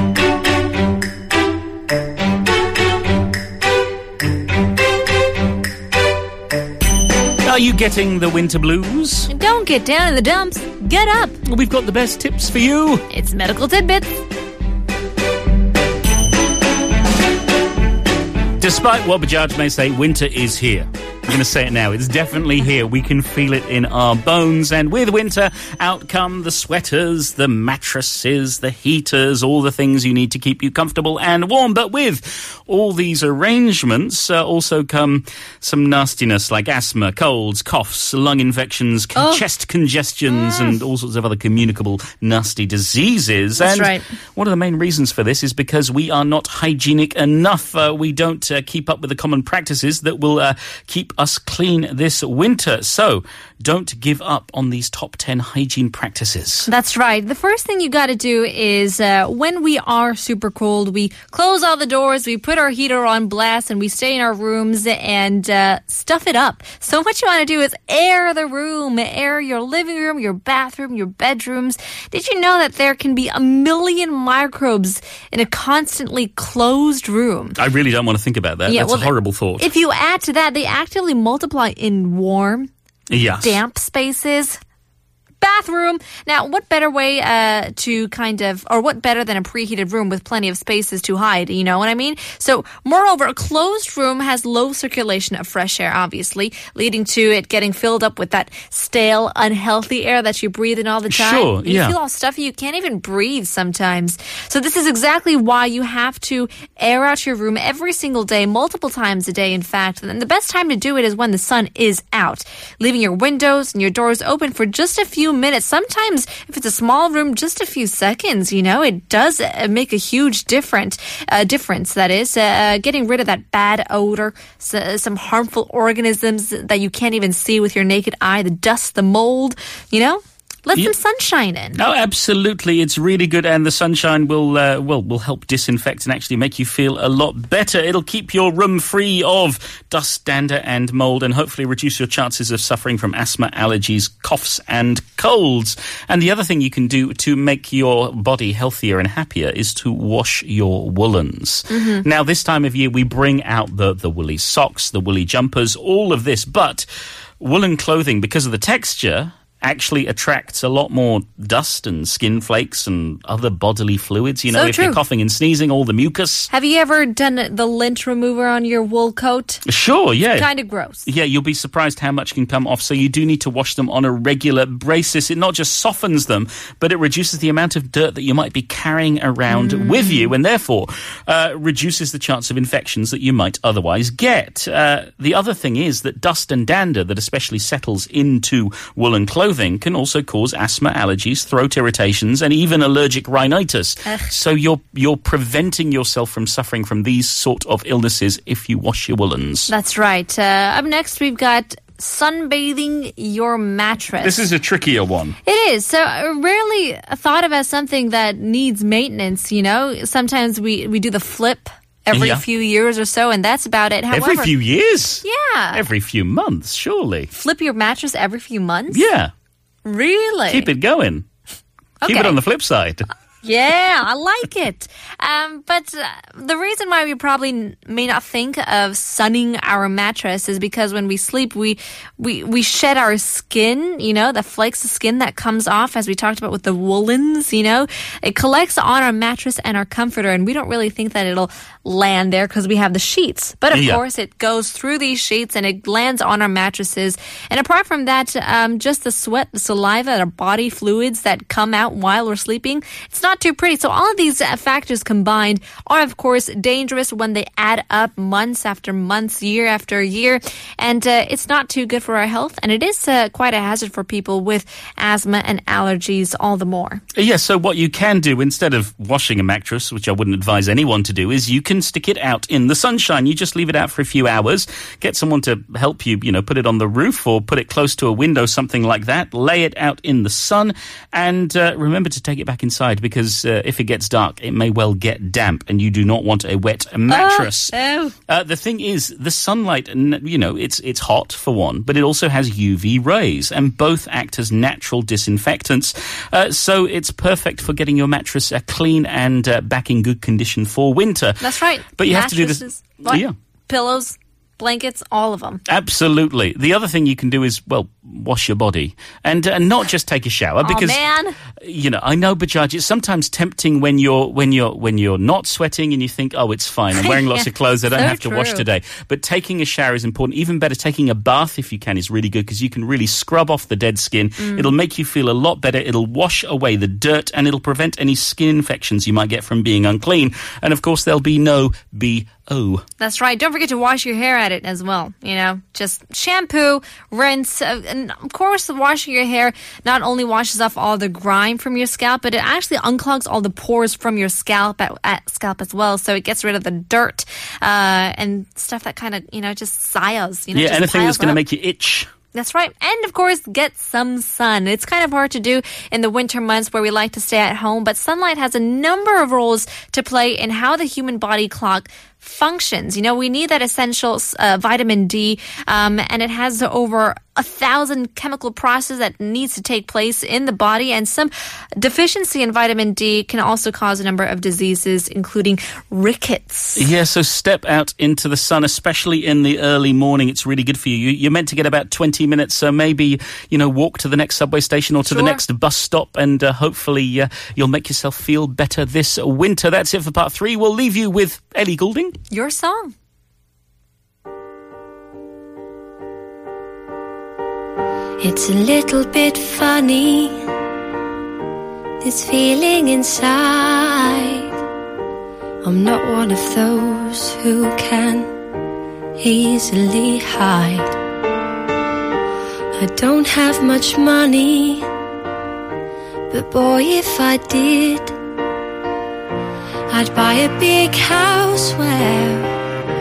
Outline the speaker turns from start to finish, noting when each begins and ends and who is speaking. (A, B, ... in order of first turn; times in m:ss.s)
0:07.4-0:09.3 A
0:09.3-0:11.4 B
0:11.4-0:13.0 A
0:13.1-0:14.2 B
0:18.6-0:56.7 A
0:39.2-0:39.4 B
0:40.3-0:40.8 B
0:43.6-0:44.0 B
0:56.7-1:17.6 B
1:17.6-1:19.7 A
1:18.7-1:22.7 B
1:23.1-1:23.6 A
1:23.4-1:24.6 B
1:25.4-2:11.8 B
1:41.1-1:42.0 A
2:11.8-2:36.9 A
2:31.7-2:32.0 B
2:37.4-2:46.5 A
2:44.5-2:45.0 B
2:46.5-2:49.6 B
2:49.7-2:50.5 A
2:50.3-2:51.0 B
2:51.1-3:19.7 A
2:59.5-3:00.3 B
3:19.7-3:24.5 B
3:24.2-3:25.4 A
3:25.4-3:34.5 B
3:32.1-3:32.4 A
3:34.1-3:37.3 A
3:35.2-3:35.8 B
3:37.3-3:39.1 B
3:38.9-3:39.3 A
3:39.8-3:40.7 B
3:40.5-3:41.2 A
3:42.0-3:42.4 B
3:42.1-3:43.1 A
3:43.4-4:27.0 B
4:03.7-4:04.0 A
4:27.2-4:47.8 A
4:47.1-4:48.2 B
4:48.3-5:01.5 A
5:01.4-5:05.6 B
5:02.0-5:03.3 A
5:05.7-5:11.0 A
5:10.6-5:11.4 B
5:11.6-5:32.8 A
5:16.9-5:18.7 B
5:24.4-5:24.7 B
5:33.0-5:51.4 B
5:50.5-5:52.1 A
5:52.3-6:16.9 B
6:16.8-6:32.1 A
6:25.0-6:25.4 B
6:32.3-6:32.9 B
6:38.2-6:40.4 C
6:42.0-6:44.5 C
6:45.6-6:48.3 C
6:49.2-6:51.0 C
6:52.8-6:54.9 C
6:56.3-6:58.2 C
6:59.9-7:02.5 C